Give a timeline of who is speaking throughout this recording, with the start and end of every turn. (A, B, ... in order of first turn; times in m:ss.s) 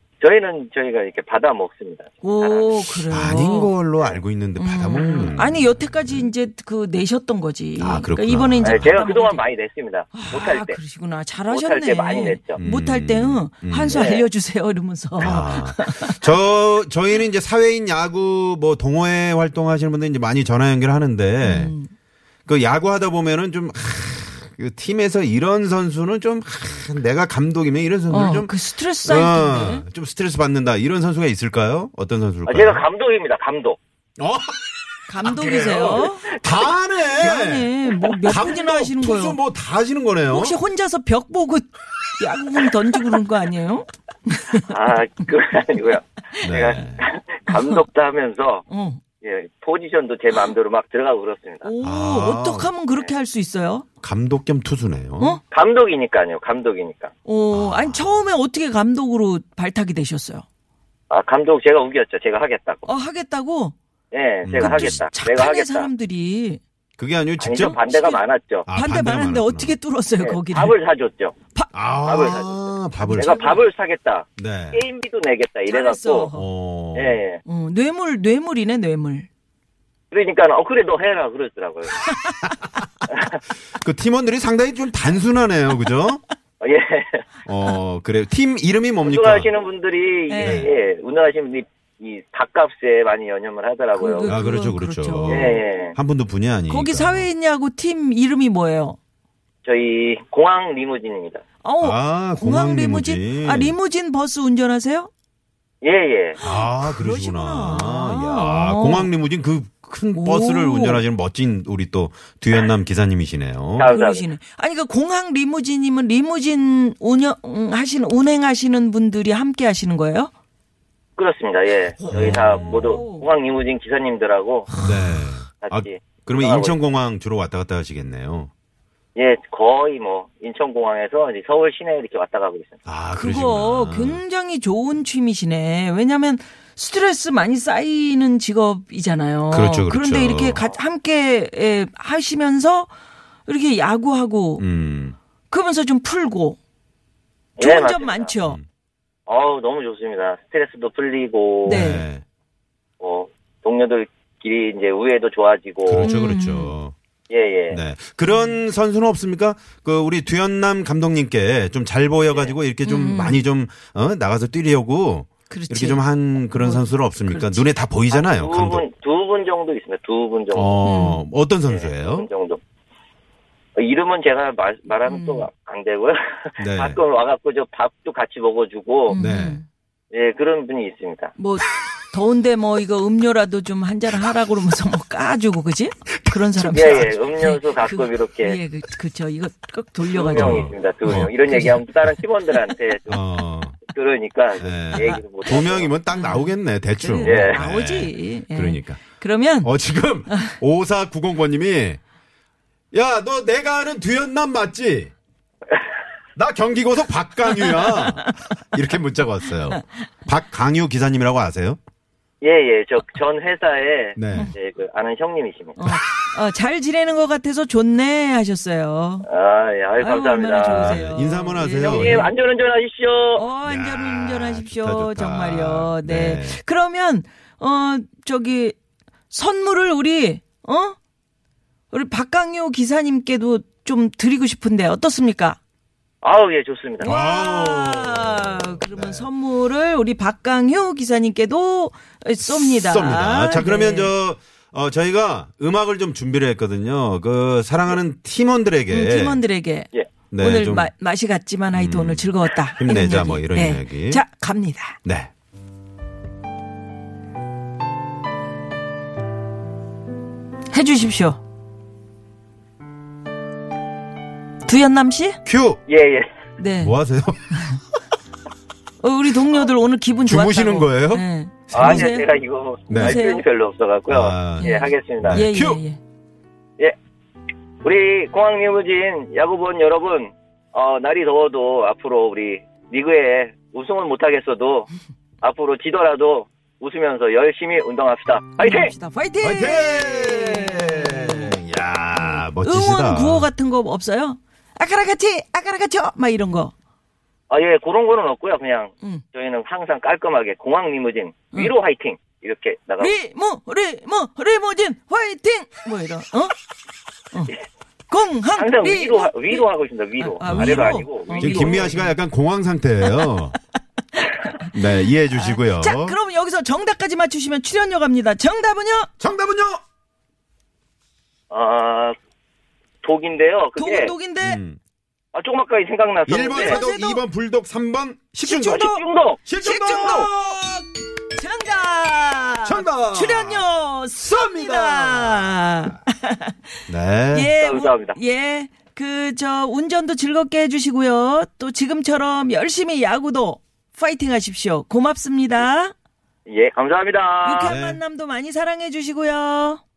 0:00.2-0:02.7 A
0:02.2-0:03.7 B
0:03.1-0:06.3 C
0:04.6-0:09.4 B
0:07.8-0:08.9 C
0:08.6-0:10.8 A
0:10.1-0:16.2 B
0:11.5-0:12.6 A
0:12.6-0:14.0 C
0:13.9-0:14.3 A
0:15.2-0:21.7 C
0:21.4-0:21.9 B
0:22.4-0:32.8 C
0:28.1-0:29.8 B
0:32.4-0:33.8 A
0:34.2-0:40.6 C
0:35.1-0:36.3 B
0:35.7-0:36.7 A
0:37.2-0:39.4 B
0:40.3-0:44.7 B
0:44.7-0:48.7 A
0:46.4-0:47.0 C
0:47.5-0:47.8 B
0:48.7-0:49.0 B
0:49.2-0:51.7 A
0:51.6-0:53.9 B
0:51.8-0:52.7 C
0:54.0-0:55.4 C
0:55.5-0:57.1 A
0:57.2-1:00.4 B
0:57.5-0:58.2 C
1:01.1-1:02.9 A
1:02.8-1:03.7 B
1:04.1-1:05.9 A
1:04.4-1:05.1 C
1:04.6-1:06.6 B
1:07.0-1:07.8 C
1:07.4-1:08.7 A
1:07.6-1:10.7 B
1:08.6-1:09.8 C
1:10.2-1:11.3 A
1:11.7-1:13.6 C
1:12.0-1:16.3 A
1:13.0-1:13.6 B
1:14.4-1:14.8 C
1:15.7-1:16.5 B
1:16.3-1:17.2 C
1:16.9-1:17.4 A
1:17.4-1:19.3 B
1:20.1-1:22.0 A
1:22.0-1:22.5 B
1:22.4-1:22.8 C
1:23.1-1:23.4 A
1:23.7-1:26.2 C
1:26.6-1:27.2 A
1:27.4-1:29.5 C
1:29.0-1:34.4 A
1:30.3-1:30.7 B
1:30.4-1:30.7 C
1:33.9-1:35.6 B
1:34.2-1:37.3 C
1:35.3-1:36.0 A
1:36.7-1:39.0 B
1:39.6-1:41.4 A
1:41.6-1:45.1 B
1:41.8-1:43.8 C
1:45.8-1:46.4 A
1:46.4-1:49.1 B
1:46.4-1:53.9 C
1:50.1-1:51.0 B
1:53.8-1:54.3 A
1:53.8-2:00.3 B
2:01.2-2:04.7 A
2:02.0-2:03.3 B
2:02.1-2:03.0 C
2:04.7-2:05.2 B
2:04.8-2:08.5 C
2:05.6-2:06.8 A
2:09.2-2:12.8 A
2:12.8-2:14.2 C
2:13.2-2:22.9 B
2:19.5-2:20.6 C
2:23.4-2:24.6 B
2:24.6-2:25.2 C
2:25.5-2:26.6 B
2:27.6-2:28.3 A
2:27.6-2:28.6 B
2:29.3-2:31.9 A
2:31.6-2:32.0 B
2:31.6-2:32.2 C
2:33.0-2:36.1 A
2:35.8-2:36.9 C
2:36.0-2:36.7 B
2:37.3-2:37.8 A
2:37.7-2:48.8 C
2:38.2-2:38.6 B
2:42.8-2:43.4 B
2:45.5-2:47.7 B
2:48.1-2:50.7 A
2:50.5-2:52.3 C
2:50.8-2:51.2 B
2:51.6-2:52.6 A
2:53.8-2:59.2 A
2:55.0-2:55.5 B
2:56.6-2:57.0 C
2:59.1-2:59.6 B
2:59.1-2:59.6 C
3:00.1-3:01.3 A
3:01.4-3:11.8 B
3:06.6-3:08.6 A
3:10.1-3:13.2 A
3:10.3-3:11.3 C
3:13.1-3:13.8 C
3:13.8-3:15.9 A
3:14.6-3:19.0 C
3:14.9-3:15.2 B
3:16.1-3:19.7 B
3:17.2-3:17.6 A
3:19.6-3:22.0 C
3:20.3-3:20.5 B
3:22.9-3:25.1 C
3:26.4-3:31.8 C
3:27.4-3:28.4 B
3:29.4-3:29.8 B
3:32.4-3:35.8 A
3:34.2-3:34.5 C
3:35.8-3:39.2 B
3:39.2-3:41.0 A
3:40.0-3:42.3 B
3:40.7-3:42.3 C
3:41.7-3:43.5 A
3:43.3-3:48.8 B
3:43.6-3:46.6 C
3:49.3-3:51.0 B
3:51.9-3:55.6 B
3:56.2-3:57.1 A
3:57.0-4:04.1 B
3:57.0-3:59.3 C
4:02.4-4:09.4 C
4:08.9-4:15.0 B
4:10.3-4:10.9 C
4:11.7-4:14.2 C
4:15.0-4:15.3 C
4:20.7-4:21.4 B
4:24.6-4:25.4 B
4:25.4-4:25.8 C
4:25.9-4:26.2 A
4:26.6-4:27.0 B
4:26.8-4:27.5 C
4:27.5-4:27.8 B
4:29.0-4:32.3 B
4:30.2-4:32.1 C
4:31.7-4:35.5 A
4:32.9-4:33.2 C
4:32.9-4:33.4 B
4:34.1-4:35.8 C
4:34.6-4:36.0 B
4:37.8-4:44.9 A
4:45.4-4:48.9 A
4:48.6-4:51.5 B
4:49.4-4:53.5 C
4:52.1-4:56.7 B
4:57.5-5:03.2 A
5:03.0-5:06.5 B
5:08.1-5:09.6 B
5:08.5-5:12.0 A
5:10.2-5:12.2 B
5:10.4-5:13.6 C
5:13.0-5:13.6 B
5:14.1-5:19.1 B
5:14.7-5:16.2 C
5:19.2-5:19.8 C
5:21.5-5:22.1 A
5:23.0-5:24.1 A
5:23.8-5:24.6 B
5:24.4-5:24.8 C
5:25.3-5:26.8 A
5:26.3-5:28.9 C
5:26.5-5:27.2 B
5:28.4-5:29.0 B
5:28.5-5:29.4 A
5:29.4-5:30.8 C
5:29.6-5:30.5 B
5:31.3-5:36.6 B
5:32.6-5:33.6 C
5:34.2-5:35.9 C
5:36.9-5:37.5 C
5:37.3-5:45.9 B
5:37.6-5:38.2 A
5:46.5-5:47.7 A
5:47.4-5:49.8 B
5:47.6-5:48.0 C